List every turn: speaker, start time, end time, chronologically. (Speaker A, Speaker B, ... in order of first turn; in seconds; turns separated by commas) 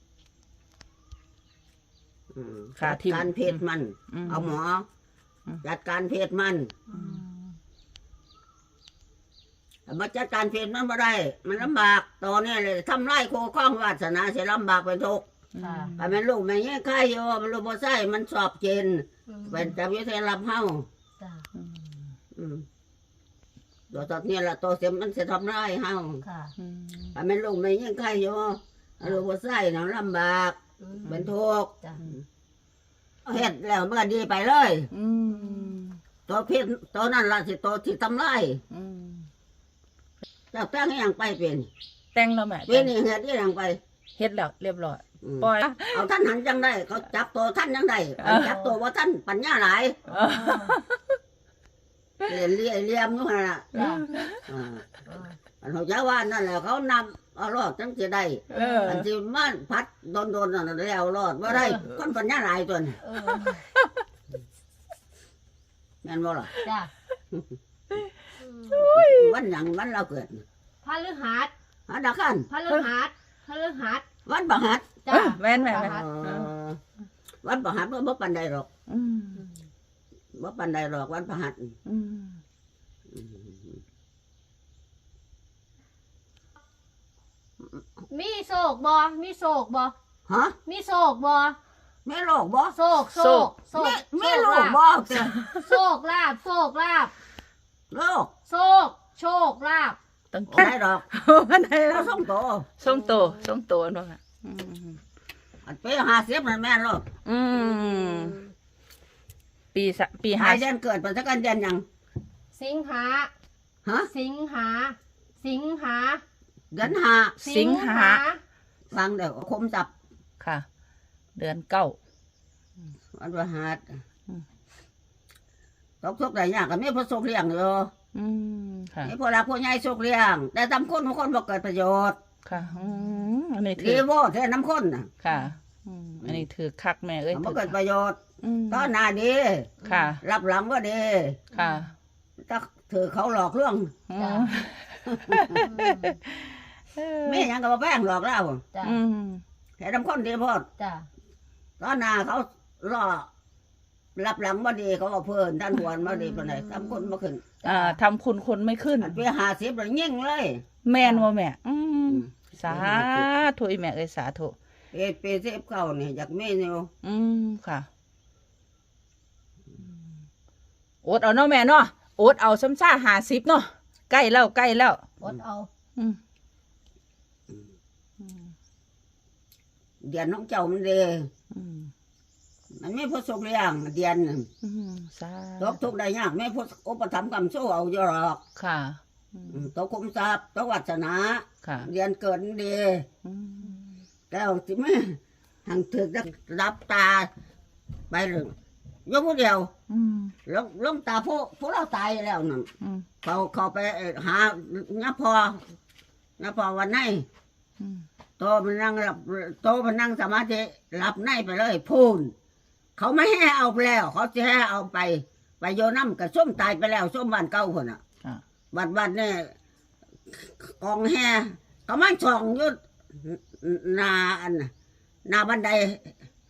Speaker A: 2.3-4.8, Speaker B: 2.8-3.6, Speaker B: 4.1-4.5, Speaker A: 5.6-6.8, Speaker C: 6.9-7.2, Speaker B: 6.9-7.5, Speaker A: 9.9-15.2, Speaker B: 15.5-16.2, Speaker C: 15.6-15.9, Speaker A: 16.0-20.9, Speaker C: 19.3-19.7, Speaker C: 21.2-21.5, Speaker B: 21.6-21.9, Speaker A: 22.3-22.6, Speaker A: 23.9-26.2, Speaker C: 26.2-26.5, Speaker B: 26.6-27.1, Speaker A: 27.1-31.8, Speaker C: 30.8-31.2, Speaker A: 33.2-34.9, Speaker B: 34.9-36.0, Speaker C: 35.4-35.7, Speaker A: 36.3-38.6, Speaker B: 38.7-39.2, Speaker A: 40.5-41.7, Speaker B: 42.1-42.9, Speaker A: 42.7-43.8, Speaker B: 44.2-46.1, Speaker A: 45.2-50.1, Speaker B: 48.2-48.6, Speaker B: 50.1-51.0, Speaker C: 50.2-50.7, Speaker A: 52.3-53.7, Speaker C: 53.7-54.1, Speaker B: 53.8-54.4, Speaker A: 54.5-54.9, Speaker C: 55.1-55.3, Speaker A: 55.6-63.0, Speaker C: 58.5-59.0, Speaker B: 58.5-59.1, Speaker C: 63.0-63.7, Speaker A: 66.0-66.5, Speaker C: 66.6-66.9, Speaker C: 68.4-68.8, Speaker B: 68.7-69.3, Speaker A: 68.9-70.4, Speaker C: 70.8-71.5, Speaker A: 71.9-72.5, Speaker C: 72.5-74.1, Speaker A: 74.2-74.9, Speaker C: 75.0-76.1, Speaker B: 75.1-76.5, Speaker A: 75.7-76.8, Speaker A: 77.4-78.7, Speaker B: 78.9-79.4, Speaker A: 80.3-81.8, Speaker B: 81.8-82.4, Speaker A: 83.1-83.6, Speaker C: 88.1-90.0, Speaker A: 90.3-90.6, Speaker C: 90.7-91.6, Speaker A: 92.0-92.8, Speaker C: 92.7-94.8, Speaker B: 93.1-93.5, Speaker A: 93.7-95.3, Speaker B: 95.1-95.6, Speaker C: 95.5-97.1, Speaker A: 97.9-98.3, Speaker C: 98.5-100.0, Speaker B: 100.3-102.2, Speaker A: 100.5-101.0, Speaker A: 101.9-102.7, Speaker B: 102.8-105.0, Speaker C: 102.9-103.3, Speaker A: 105.7-107.1, Speaker B: 107.2-108.4, Speaker C: 108.0-108.4, Speaker B: 109.7-110.6, Speaker A: 110.4-111.8, Speaker C: 112.5-113.3, Speaker A: 113.8-114.1, Speaker C: 114.1-116.2, Speaker A: 116.7-117.4, Speaker C: 117.4-118.4, Speaker B: 117.4-118.2, Speaker A: 118.9-119.9, Speaker B: 120.4-120.7, Speaker B: 121.3-122.0, Speaker A: 123.1-124.0, Speaker A: 126.0-127.9, Speaker B: 128.2-129.1, Speaker A: 129.0-132.2, Speaker B: 132.4-134.0, Speaker A: 133.8-135.1, Speaker B: 135.2-137.7, Speaker A: 137.3-138.2, Speaker B: 138.4-138.9, Speaker A: 138.7-141.4, Speaker C: 139.8-140.1, Speaker B: 139.8-140.2, Speaker C: 141.5-141.8, Speaker B: 141.5-141.9, Speaker A: 142.4-143.9, Speaker B: 144.1-147.5, Speaker C: 144.2-144.6, Speaker A: 145.1-145.5, Speaker C: 145.5-146.2, Speaker A: 147.2-148.6, Speaker C: 148.7-149.0, Speaker B: 148.8-149.4, Speaker A: 149.8-150.7, Speaker C: 150.8-151.1, Speaker A: 151.8-153.3, Speaker A: 154.2-157.5, Speaker C: 156.2-157.1, Speaker C: 157.6-158.0, Speaker B: 157.6-159.2, Speaker A: 159.0-160.6, Speaker B: 160.8-164.5, Speaker A: 162.2-163.3, Speaker A: 164.9-166.9, Speaker B: 167.0-167.9, Speaker B: 171.0-175.0, Speaker C: 175.2-175.7, Speaker A: 180.0-181.3, Speaker B: 181.5-181.9, Speaker A: 182.7-184.5, Speaker B: 184.6-185.8, Speaker A: 185.6-188.4, Speaker B: 188.6-189.6, Speaker A: 189.5-193.1, Speaker B: 191.6-191.9, Speaker B: 193.2-193.8, Speaker A: 194.3-197.3, Speaker A: 198.1-198.5, Speaker A: 199.1-199.7, Speaker B: 199.9-200.3, Speaker A: 200.5-202.7, Speaker B: 202.8-203.1, Speaker A: 203.2-205.6, Speaker A: 206.4-207.3, Speaker B: 207.8-208.1, Speaker A: 208.4-212.3, Speaker A: 213.0-218.0, Speaker A: 218.7-219.5, Speaker A: 220.3-224.7, Speaker A: 225.3-226.1